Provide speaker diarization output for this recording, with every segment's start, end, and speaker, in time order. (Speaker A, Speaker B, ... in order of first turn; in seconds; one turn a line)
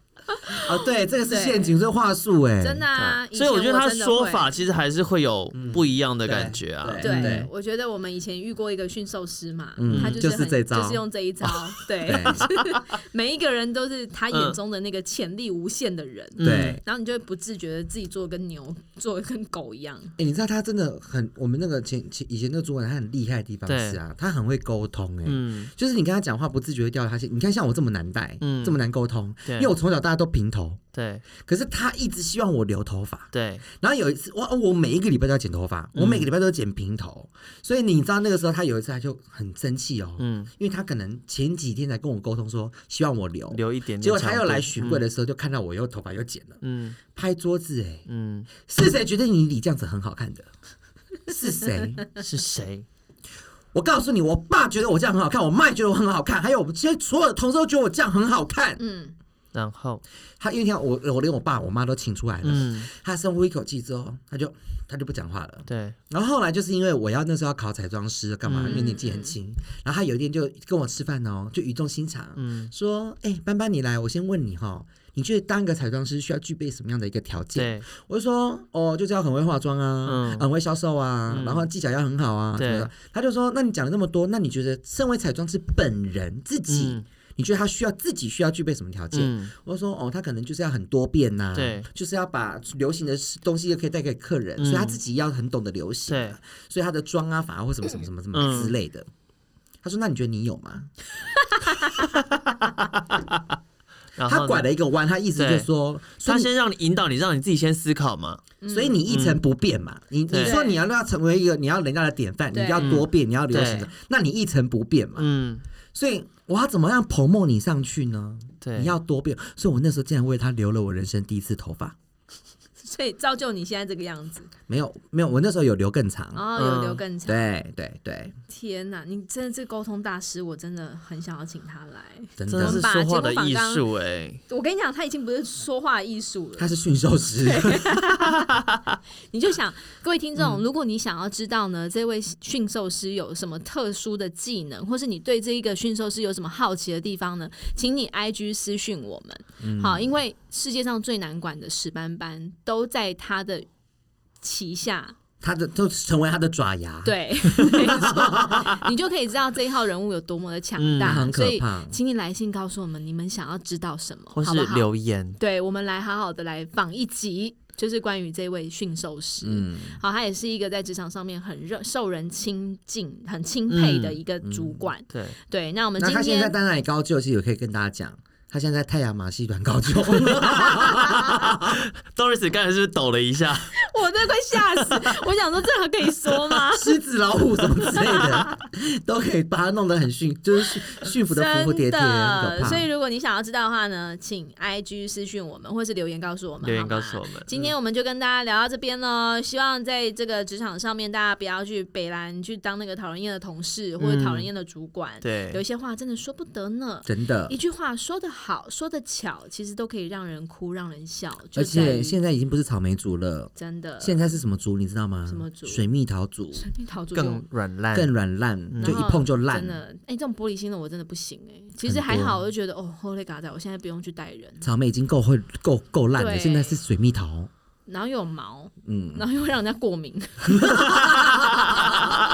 Speaker A: 0.3-1.8
Speaker B: 0.5-2.9
Speaker A: 2.6-4.6
Speaker C: 2.9-7.4
Speaker B: 5.5-7.5
Speaker A: 7.0-20.1
Speaker B: 9.8-11.0
Speaker C: 9.9-10.2
Speaker B: 12.0-12.5
Speaker C: 14.3-14.6
Speaker C: 16.4-16.8
Speaker B: 16.4-16.8
Speaker B: 20.2-30.8
Speaker C: 23.7-24.0
Speaker C: 25.2-25.7
Speaker C: 28.4-28.8
Speaker C: 29.4-29.7
Speaker C: 30.9-31.2
Speaker B: 31.4-46.6
Speaker C: 33.3-33.6
Speaker C: 35.9-36.3
Speaker C: 40.2-40.5
Speaker C: 43.5-45.0
Speaker C: 46.6-47.0
Speaker B: 47.1-48.0
Speaker C: 48.1-48.5
Speaker B: 48.6-50.5
Speaker B: 51.3-52.0
Speaker C: 52.2-52.9
Speaker B: 53.7-58.8
Speaker A: 58.8-59.1
Speaker C: 59.5-60.0
Speaker B: 60.4-99.1
Speaker C: 62.4-62.9
Speaker C: 65.7-66.0
Speaker C: 68.5-68.8
Speaker A: 68.6-69.3
Speaker C: 72.4-72.7
Speaker C: 77.5-77.8
Speaker C: 80.0-80.5
Speaker C: 81.3-81.7
Speaker C: 82.6-82.9
Speaker C: 86.7-87.0
Speaker C: 89.1-89.5
Speaker C: 91.5-91.9
Speaker C: 94.6-95.0
Speaker C: 96.1-96.3
Speaker C: 98.3-98.7
Speaker B: 99.8-100.9
Speaker C: 102.1-103.2
Speaker C: 104.2-104.7
Speaker B: 104.2-106.5
Speaker C: 105.3-105.7
Speaker C: 106.2-108.4
Speaker A: 108.6-109.0
Speaker B: 108.7-115.3
Speaker C: 109.1-109.4
Speaker C: 110.3-110.5
Speaker A: 110.3-110.8
Speaker A: 112.5-113.0
Speaker C: 112.8-113.9
Speaker C: 115.2-115.6
Speaker B: 115.9-121.9
Speaker C: 118.6-118.9
Speaker A: 122.8-124.5
Speaker B: 124.7-126.4
Speaker A: 126.3-127.5
Speaker C: 126.5-127.0
Speaker B: 127.2-128.3
Speaker A: 128.5-133.8
Speaker B: 132.4-132.8
Speaker C: 132.5-134.4
Speaker A: 134.5-136.7
Speaker B: 136.6-138.3
Speaker A: 137.4-138.2
Speaker A: 139.3-153.7
Speaker B: 149.6-150.1
Speaker A: 154.4-155.1
Speaker B: 155.4-158.9
Speaker A: 157.0-176.5
Speaker C: 160.8-161.3
Speaker B: 161.0-161.9
Speaker C: 164.3-165.4
Speaker B: 169.4-170.0
Speaker C: 173.7-174.2
Speaker B: 174.4-174.8
Speaker B: 176.0-181.8
Speaker C: 181.2-183.7
Speaker A: 183.7-186.9
Speaker B: 186.7-192.9
Speaker A: 187.8-188.5
Speaker A: 191.3-212.2
Speaker C: 196.6-197.7
Speaker C: 204.0-204.5
Speaker C: 205.2-205.6
Speaker B: 207.1-207.5
Speaker B: 211.5-216.6
Speaker A: 213.6-214.3
Speaker A: 215.3-215.8
Speaker A: 216.5-217.4
Speaker C: 217.1-218.1
Speaker B: 217.9-219.8
Speaker C: 218.7-219.0
Speaker A: 218.8-224.7
Speaker B: 221.8-222.4
Speaker B: 224.6-227.5
Speaker A: 226.2-226.8
Speaker A: 227.9-232.0
Speaker B: 228.8-229.2
Speaker B: 230.5-231.8